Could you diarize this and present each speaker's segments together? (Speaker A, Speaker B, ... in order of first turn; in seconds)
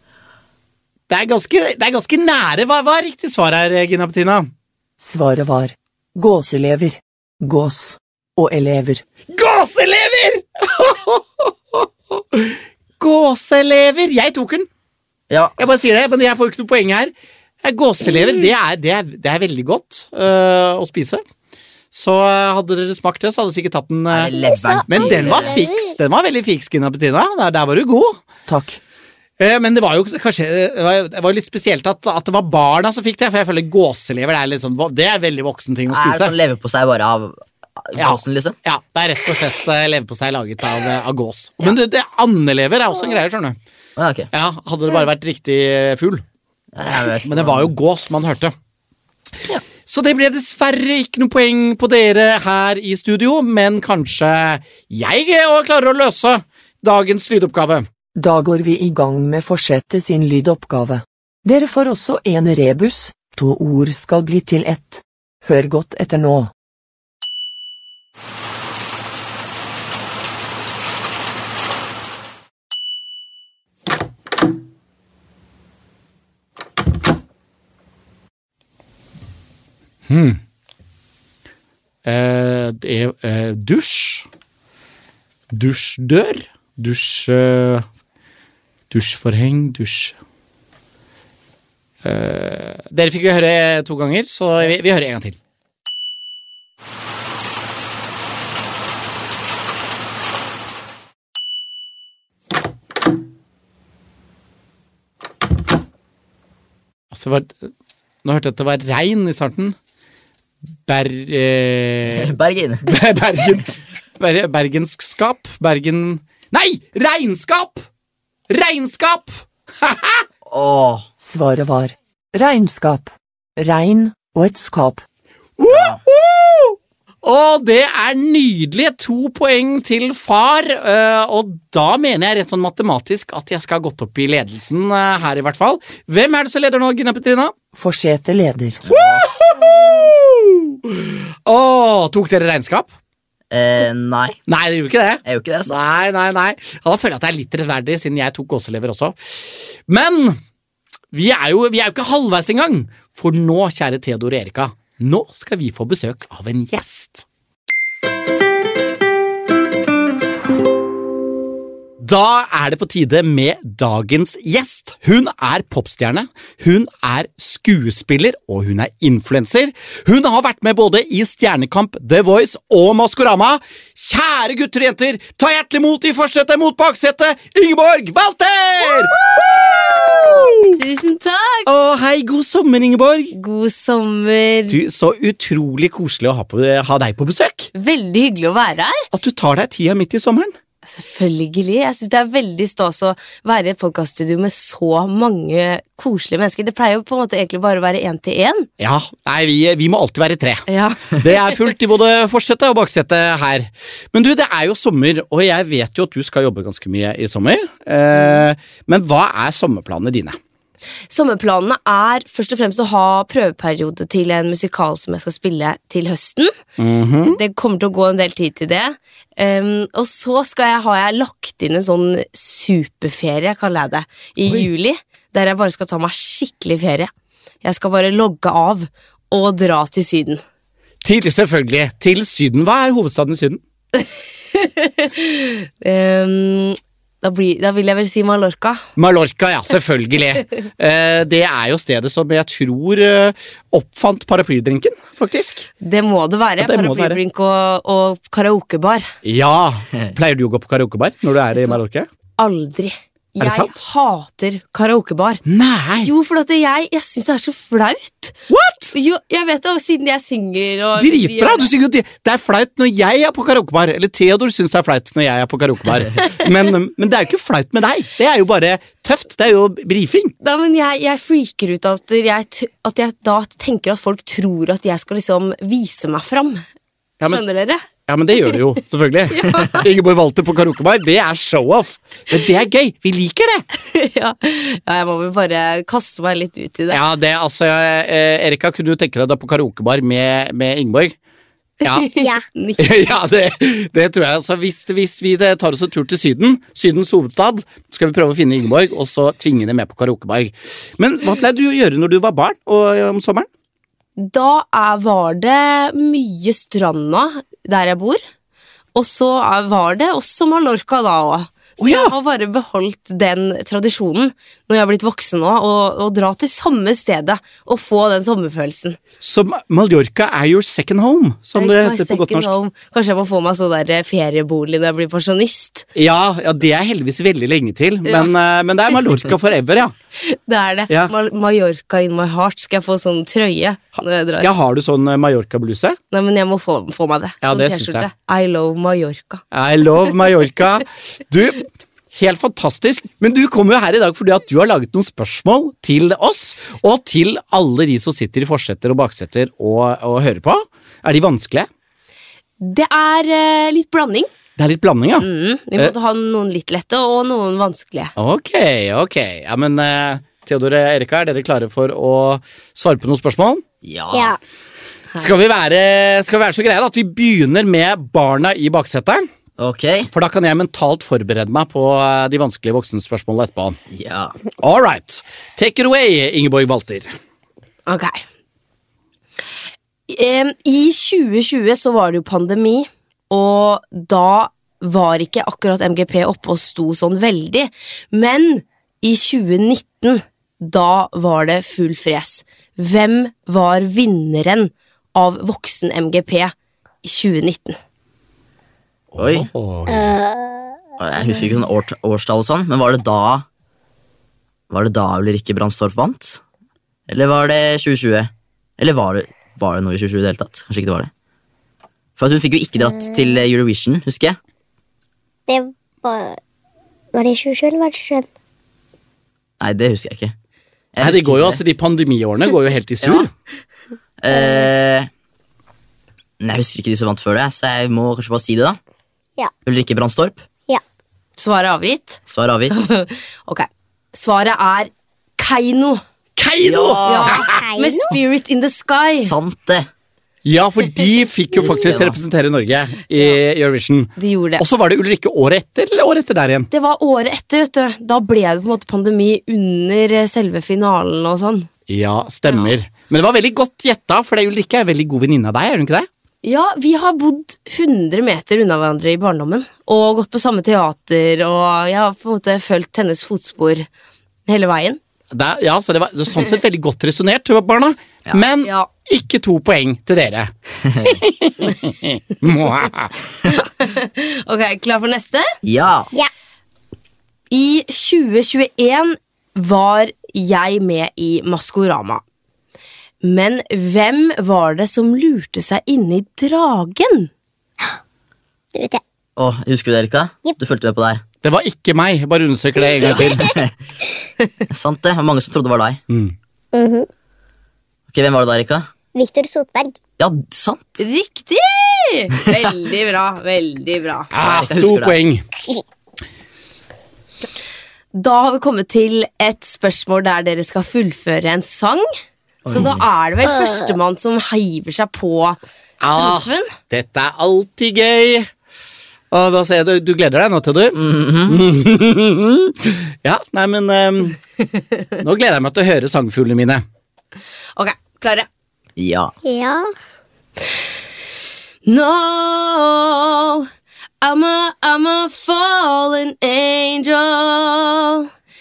Speaker A: 1.1-4.5, 9.3-14.7, 15.6-17.1, 17.6-21.2, 21.9-24.3, 24.9-28.2, 29.4-36.3, 38.0-43.5, 44.3-46.2, 47.2-48.5, 49.9-57.9, 80.1-80.4, 82.0-84.2, 85.5-87.8, 88.9-90.1, 92.0-95.4, 107.1-107.7, 108.2-109.7, 110.8-112.3, 112.8-117.8, 118.5-120.2, 125.6-137.5, 138.9-142.9, 144.5-149.2, 149.9-150.4, 151.1-157.2, 162.0-180.8, 181.7-183.3, 184.7-187.7, 189.1-190.5, 198.8-210.4, 216.8-217.4, 231.0-233.6, 239.0-245.7, 246.6-247.2, 249.2-252.1, 253.4-253.7, 255.5-256.1, 258.5-258.9, 261.0-270.3, 278.1-283.6, 286.9-291.1, 291.8-292.1, 292.8-303.5, 311.8-312.1, 319.2-322.5, 325.9-329.9, 334.4-336.0, 337.4-338.1, 339.5-351.7, 354.6-355.9, 358.2-363.6, 365.2-369.2, 370.1-373.8, 374.6-377.1, 399.1-400.1, 421.0-423.3, 436.4-437.6, 440.4-446.7, 451.9-456.1, 465.3-473.1, 491.4-493.5, 496.1-496.3, 504.3-505.4, 516.0-518.5, 519.3-524.4, 525.2-526.8
Speaker B: 5.0-9.0, 28.5-28.8, 58.1-66.5, 121.2-125.0, 137.7-138.8
Speaker C: 15.3-15.6, 24.1-25.6, 35.9-38.5, 44.0-44.3, 46.7-47.7, 112.0-112.9, 120.5-121.1, 125.7-126.0, 138.8-139.3, 143.5-144.4, 145.2-145.8, 363.8-364.4, 369.6-370.1, 373.9-374.3, 399.2-399.5, 401.0-403.4, 404.7-406.4, 407.1-411.1, 412.2-414.4, 419.6-420.3, 420.9-421.6, 423.0-423.3, 424.2-425.1, 426.4-428.8, 429.6-430.4, 432.3-432.8, 436.6-437.4, 439.1-439.9, 441.5-442.2, 470.8-471.2, 475.6-476.1, 489.4-491.2, 493.0-493.7, 494.7-496.0, 498.1-498.9, 500.2-501.0, 504.4-505.2, 512.6-513.0, 520.9-521.6, 529.0-529.3
Speaker D: 24.3-26.0, 292.2-292.4, 364.1-364.4, 399.9-400.4, 412.8-413.3, 415.5-416.4, 417.1-418.2, 424.3-424.7, 437.4-438.1, 488.7-489.0, 493.0-493.5, 496.7-497.1, 499.1-500.0, 513.4-513.9, 529.4-529.9
Speaker E: 180.7-181.7, 183.3-184.8, 187.7-189.0, 190.8-198.7, 200.7-201.7, 211.1-216.5, 217.3-227.1, 227.6-230.4, 233.9-238.8, 245.8-249.1, 252.4-255.4, 256.0-258.4, 258.9-261.7, 270.4-276.6, 277.2-277.9, 279.3-279.9, 283.9-287.0, 291.8-292.8, 304.2-308.2, 308.9-319.0, 321.6-325.8, 328.1-328.3, 330.2-334.5, 336.1-339.4, 352.6-354.3, 355.2-358.1, 377.9-378.2, 380.1-396.5, 397.0-397.8, 431.4-436.0, 437.0-439.3, 444.2-444.6, 446.7-451.7, 456.4-463.9, 464.5-465.0, 473.5-475.4, 477.5-482.2, 483.2-487.3, 501.0-504.3, 508.1-512.0, 512.7-515.6, 516.1-516.7, 527.8-528.5, 531.9-533.7, 534.2-538.3